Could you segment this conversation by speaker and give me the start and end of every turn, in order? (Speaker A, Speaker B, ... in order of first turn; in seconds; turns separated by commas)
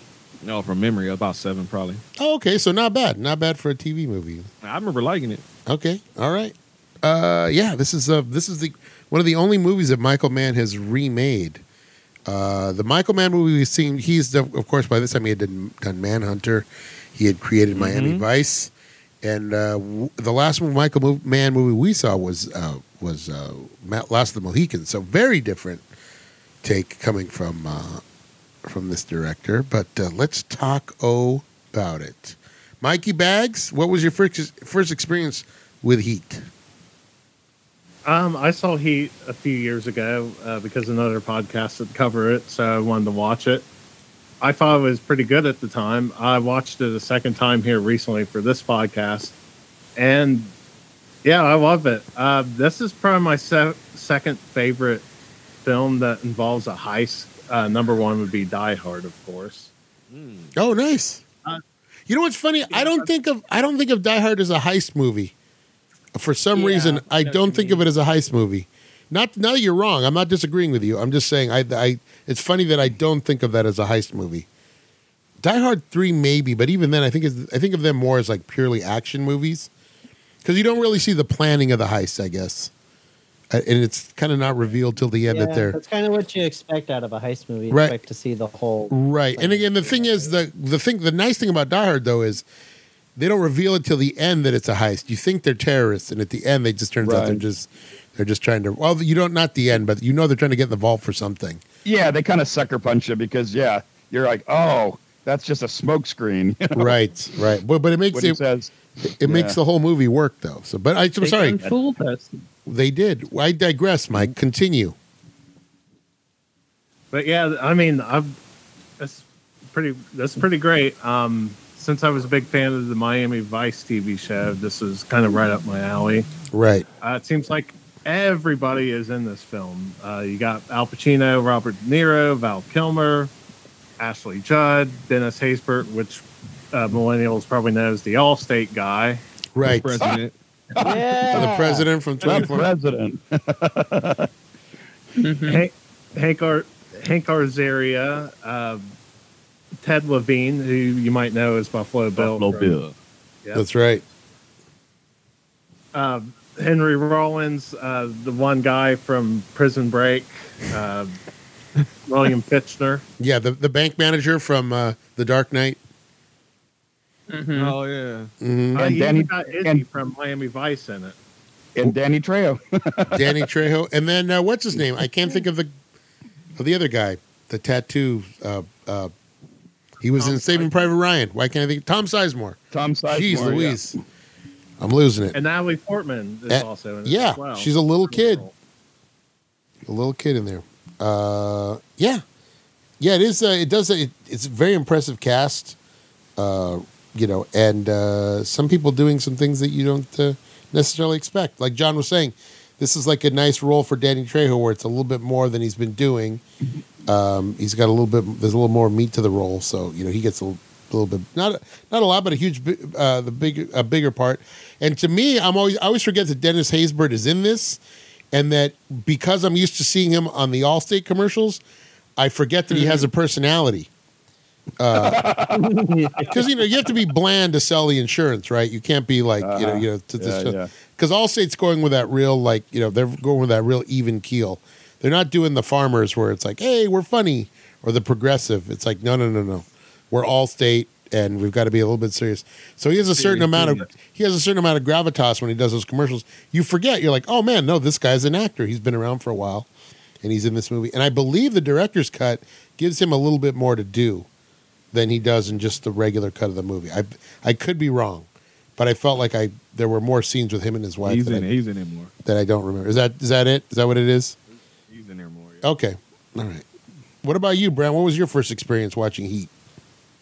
Speaker A: 0.4-2.0, Speaker B: 2.2-4.5, Speaker A: 4.6-5.4, Speaker B: 5.7-11.6, Speaker B: 12.3-18.7, Speaker A: 17.7-18.2, Speaker B: 19.2-25.8, Speaker B: 26.6-28.0, Speaker B: 28.6-36.4, Speaker C: 38.0-43.6, Speaker C: 44.4-49.3, Speaker C: 50.0-50.5, Speaker C: 51.2-55.0, Speaker C: 55.6-59.7, Speaker A: 60.1-60.5, Speaker B: 60.5-61.2, Speaker B: 62.1-65.3, Speaker C: 62.7-63.0, Speaker B: 66.1-74.5, Speaker D: 66.5-67.8, Speaker B: 75.4-79.7, Speaker B: 80.4-82.7, Speaker B: 83.5-85.8, Speaker E: 85.3-90.3, Speaker B: 87.7-88.0, Speaker B: 88.9-92.4, Speaker B: 93.2-101.6, Speaker F: 97.0-97.4, Speaker F: 101.8-106.9, Speaker B: 106.7-108.4, Speaker F: 108.1-109.6, Speaker B: 109.2-111.6, Speaker D: 111.2-112.4, Speaker B: 112.7-114.9, Speaker C: 117.1-118.3, Speaker C: 119.0-126.3, Speaker B: 126.5-126.8, Speaker C: 127.0-133.3, Speaker C: 134.0-139.2, Speaker B: 139.5-140.0, Speaker A: 139.6-140.3, Speaker F: 140.8-141.5, Speaker E: 140.8-141.9, Speaker B: 141.3-142.7, Speaker F: 142.2-144.3, Speaker D: 145.2-145.7, Speaker C: 145.4-148.9, Speaker C: 149.8-152.8, Speaker A: 152.2-152.9, Speaker B: 153.5-154.0, Speaker C: 155.9-161.1, Speaker C: 162.1-163.0, Speaker B: 163.2-165.8, Speaker D: 167.3-167.7, Speaker A: 167.5-168.3, Speaker B: 168.4-168.9, Speaker C: 168.7-171.2, Speaker F: 168.8-169.8, Speaker F: 171.7-173.4, Speaker B: 173.1-175.7, Speaker B: 176.6-179.1, Speaker B: 180.0-182.6, Speaker C: 180.2-180.7, Speaker F: 182.7-183.8, Speaker B: 183.1-184.0, Speaker B: 184.8-185.4, Speaker C: 185.3-188.5, Speaker B: 186.5-188.4, Speaker B: 189.8-192.2, Speaker B: 193.0-195.8, Speaker B: 196.4-206.4, Speaker B: 207.1-217.8, Speaker B: 218.3-221.6, Speaker B: 222.2-223.9, Speaker F: 222.7-223.0, Speaker B: 224.8-225.2, Speaker F: 224.9-225.7, Speaker E: 225.5-226.4, Speaker B: 226.3-249.7, Speaker F: 229.4-230.7, Speaker A: 243.1-243.9, Speaker B: 250.2-254.3, Speaker B: 254.9-261.5, Speaker A: 261.0-262.1, Speaker B: 262.2-264.4, Speaker A: 264.9-265.6, Speaker B: 265.6-266.6, Speaker B: 267.2-269.5